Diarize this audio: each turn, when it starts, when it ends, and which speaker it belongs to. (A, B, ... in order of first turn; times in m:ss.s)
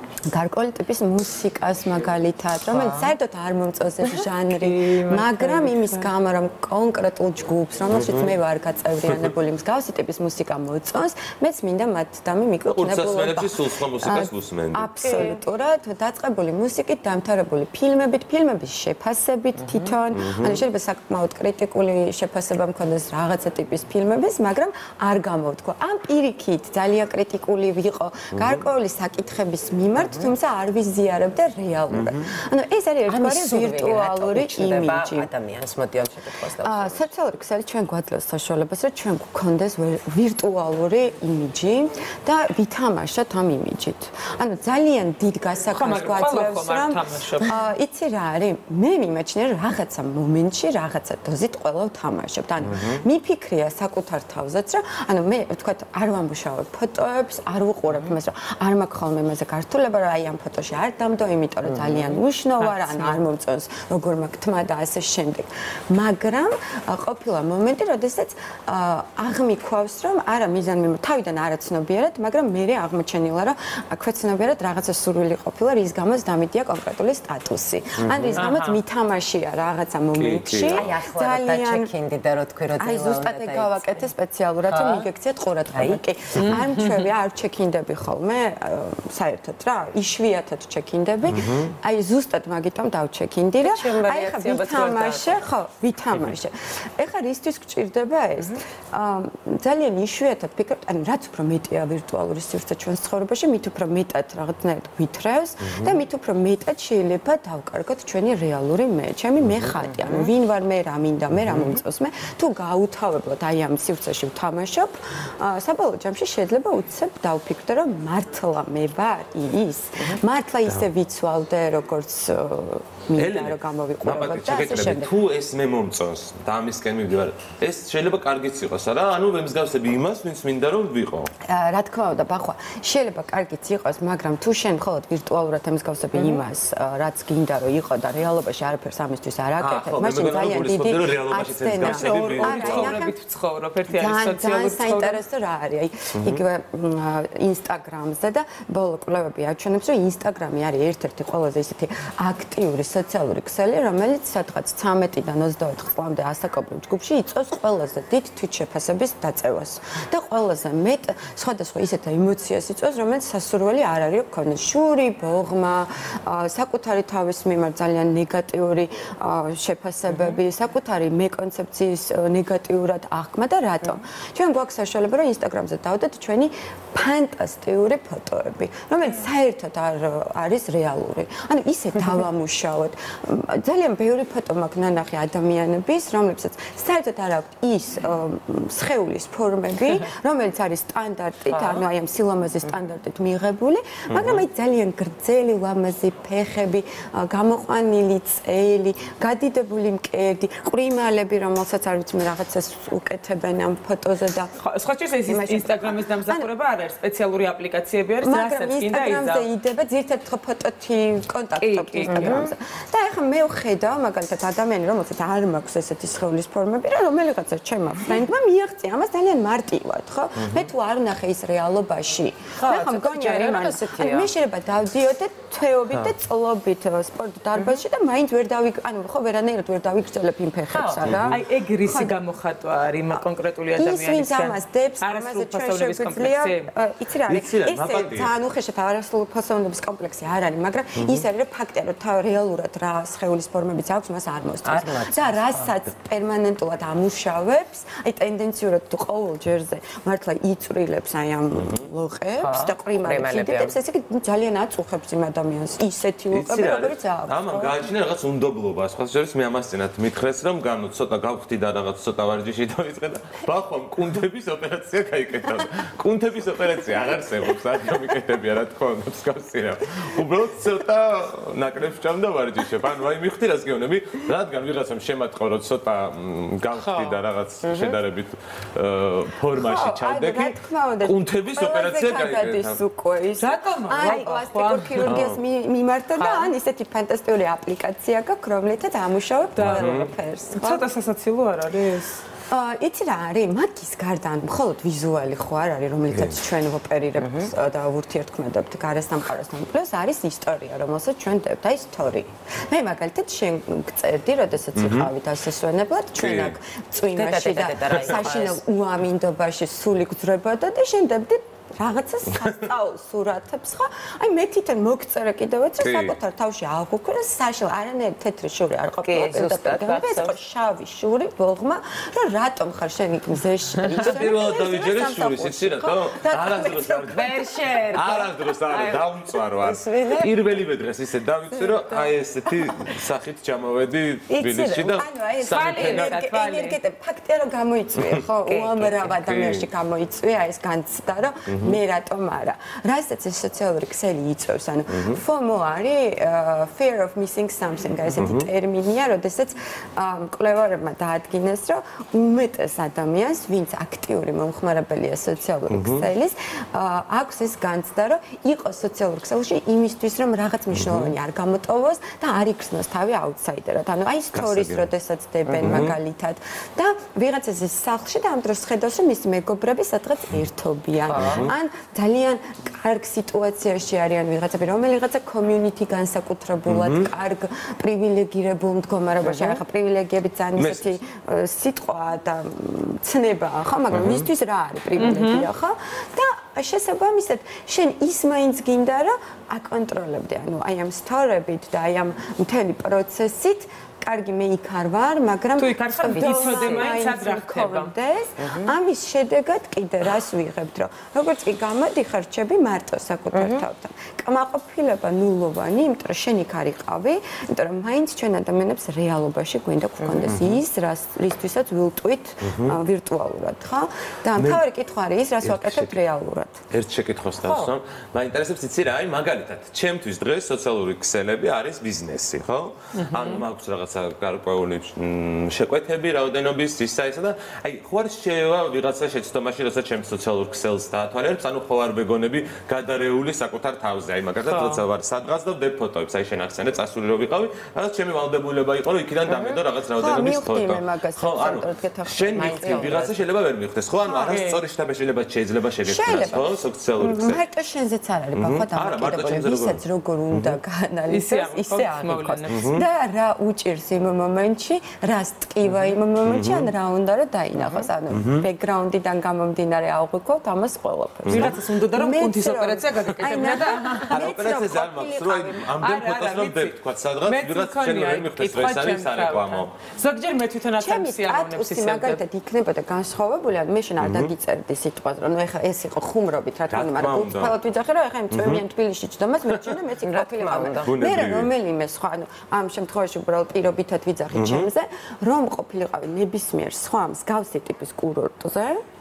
0:00.3-0:35.3 A
0:02.7-0:03.1 B
0:04.0-0:06.1 B
0:07.9-0:08.4 C
0:12.7-0:14.9 C
0:15.0-0:15.4 B
0:20.1-0:20.6 C
0:28.3-0:28.6 C
0:30.0-0:30.3 D
0:31.9-0:32.2 C
0:33.0-0:37.1 D
0:36.6-1:21.9 A
0:45.7-0:47.6 B
0:52.7-0:53.0 C
1:02.6-1:03.2 B
1:18.0-1:18.5 C
1:18.4-1:18.8 B
1:20.1-1:20.9 C
1:20.7-1:24.1 D
1:22.8-2:05.1 A
1:24.7-1:25.1 D
1:25.7-1:26.0 D
1:33.6-1:35.4 D
1:50.0-1:50.3 D
1:51.4-1:51.8 C
2:03.2-2:11.3 C
2:11.4-2:23.2 A
2:19.6-2:23.0 C
2:21.8-2:25.2 B
2:23.9-3:24.5 A
2:26.1-2:26.4 C
3:11.5-3:11.8 D
3:14.1-3:14.4 C
3:24.6-3:29.5 B
3:25.2-3:26.5 A
3:28.2-3:52.2 A
3:31.6-3:32.5 B
3:32.0-3:32.5 D
3:40.4-3:40.7 C
3:42.6-3:44.3 D
3:47.5-3:47.8 D
3:50.7-3:51.2 D
3:51.1-3:51.4 C
3:51.3-3:56.7 B
3:53.1-4:17.9 A
3:57.3-3:58.3 C
4:01.0-4:01.2 C
4:04.6-4:05.7 D
4:12.4-4:13.8 D
4:16.3-4:42.8 C
4:36.7-4:37.2 B
4:37.6-4:38.0 D
4:39.5-4:50.8 A
4:43.4-4:45.2 B
4:45.0-4:45.4 C
4:46.2-4:46.5 B
4:49.6-4:50.0 B
4:49.6-4:50.1 C
4:50.5-4:52.2 B
4:52.5-5:27.4 A
4:56.1-4:56.4 C
4:57.2-4:57.5 D
5:04.8-5:05.1 C
5:06.2-5:06.5 C
5:07.1-5:08.6 D
5:15.8-5:16.2 C
5:19.0-5:20.3 D
5:24.0-5:36.2 C
5:27.1-5:30.4 D
5:31.5-5:32.9 A
5:34.3-5:35.0 D
5:34.9-6:56.6 A
5:35.5-5:36.8 B
5:38.4-5:39.2 D
5:39.1-5:39.7 C
5:41.5-5:41.8 C
5:48.1-5:48.5 C
5:55.7-5:56.0 C
6:00.7-6:01.1 C
6:04.3-6:04.9 C
6:05.5-6:05.8 D
6:05.6-6:06.0 C
6:11.1-6:11.5 D
6:11.1-6:11.5 C
6:16.6-6:17.1 C
6:19.2-6:19.6 D
6:20.5-6:21.0 C
6:23.9-6:24.3 C
6:25.0-6:25.5 B
6:35.6-6:37.9 B
6:36.1-6:37.0 D
6:38.4-6:38.7 D
6:43.3-6:43.6 D
6:50.2-6:50.6 C
6:52.4-6:52.8 C
6:54.4-6:54.6 C
6:55.4-6:56.0 C
6:56.7-7:27.4 C
6:57.4-6:57.7 B
7:02.9-7:03.4 B
7:14.4-7:14.8 B
7:20.0-7:23.2 A
7:22.4-7:22.8 D
7:24.0-7:24.3 A
7:24.1-7:24.6 B
7:25.8-7:45.7 A
7:28.3-7:30.6 C
7:31.1-7:32.8 B
7:32.5-7:32.8 C
7:36.2-7:36.7 C
7:37.6-7:37.9 B
7:38.1-7:38.4 C
7:41.2-7:41.5 C
7:41.3-7:44.3 B
7:44.1-7:49.7 C
7:45.7-7:52.2 B
7:50.8-8:08.8 A
7:54.0-7:54.3 C
7:56.7-7:57.6 C
7:58.3-7:58.6 C
8:00.0-8:00.9 D
8:00.8-8:01.5 C
8:04.3-8:04.7 C